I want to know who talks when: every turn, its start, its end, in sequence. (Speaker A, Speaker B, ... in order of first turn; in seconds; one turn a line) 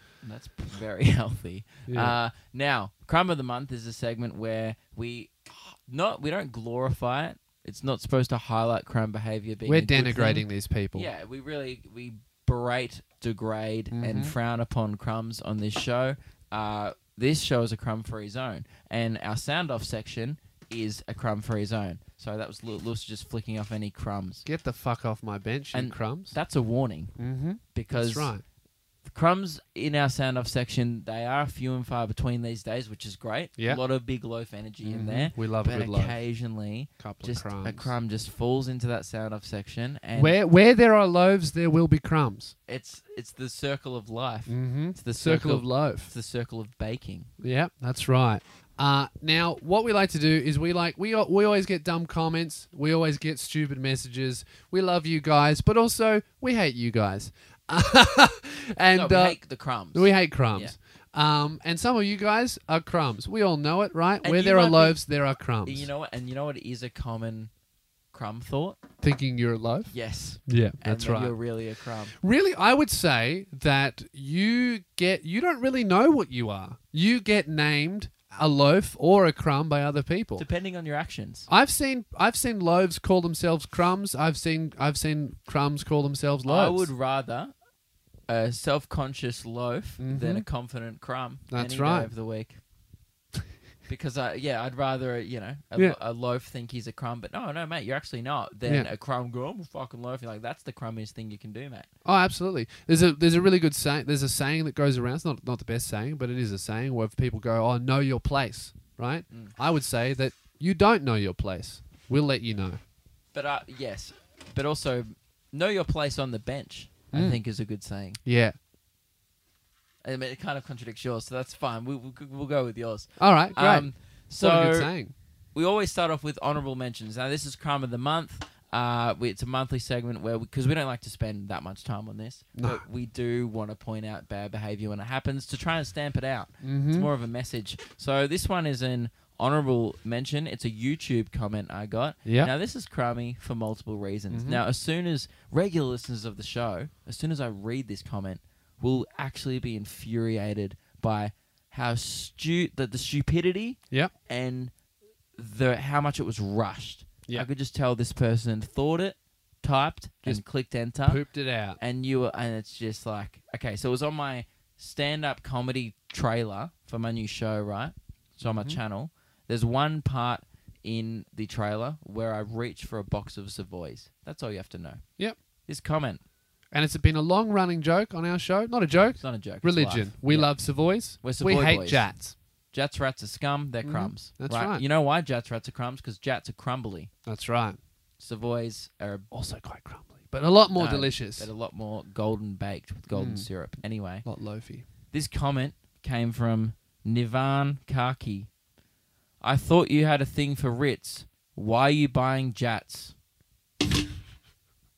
Speaker A: 0.2-24.4
Speaker B: 1.9-2.2
Speaker B: 9.7-11.1
Speaker B: 13.9-14.3
Speaker B: 24.4-26.4
Speaker A: 25.7-27.1
Speaker B: 27.2-28.4
Speaker A: 27.7-28.3
Speaker A: 29.1-40.4
Speaker B: 34.8-36.2
Speaker B: 37.0-37.9
Speaker B: 40.2-42.5
Speaker A: 42.7-47.3
Speaker B: 44.5-46.1
Speaker B: 47.4-59.4
Speaker A: 59.0-60.7
Speaker B: 59.9-65.9
Speaker A: 64.2-65.0
Speaker A: 65.7-67.5
Speaker A: 68.1-68.8
Speaker B: 69.0-69.9
Speaker A: 69.9-72.2
Speaker B: 70.5-71.3
Speaker B: 72.2-80.5
Speaker A: 80.4-81.5
Speaker B: 81.5-86.9
Speaker A: 86.5-87.5
Speaker A: 88.3-92.6
Speaker B: 90.0-90.5
Speaker B: 91.5-92.1
Speaker A: 93.9-101.9
Speaker B: 102.0-112.8
Speaker A: 113.3-118.2
Speaker B: 117.1-117.4
Speaker B: 118.2-118.6
Speaker A: 120.0-124.9
Speaker B: 123.2-125.1
Speaker A: 125.5-154.7
Speaker B: 132.6-132.8
Speaker B: 136.6-137.1
Speaker B: 142.2-142.5
Speaker B: 144.3-144.6
Speaker A: 155.4-161.2
Speaker B: 161.1-161.8
Speaker A: 161.8-175.1
Speaker B: 168.4-168.8
Speaker A: 175.7-176.2
Speaker B: 176.7-182.3
Speaker A: 179.2-182.1
Speaker A: 182.7-187.1
Speaker B: 183.8-184.8
Speaker B: 187.3-187.8
Speaker A: 188.2-189.3
Speaker B: 189.3-191.5
Speaker A: 190.8-194.3
Speaker B: 193.1-193.5
Speaker B: 194.2-194.8
Speaker A: 195.1-198.5
Speaker A: 199.4-203.1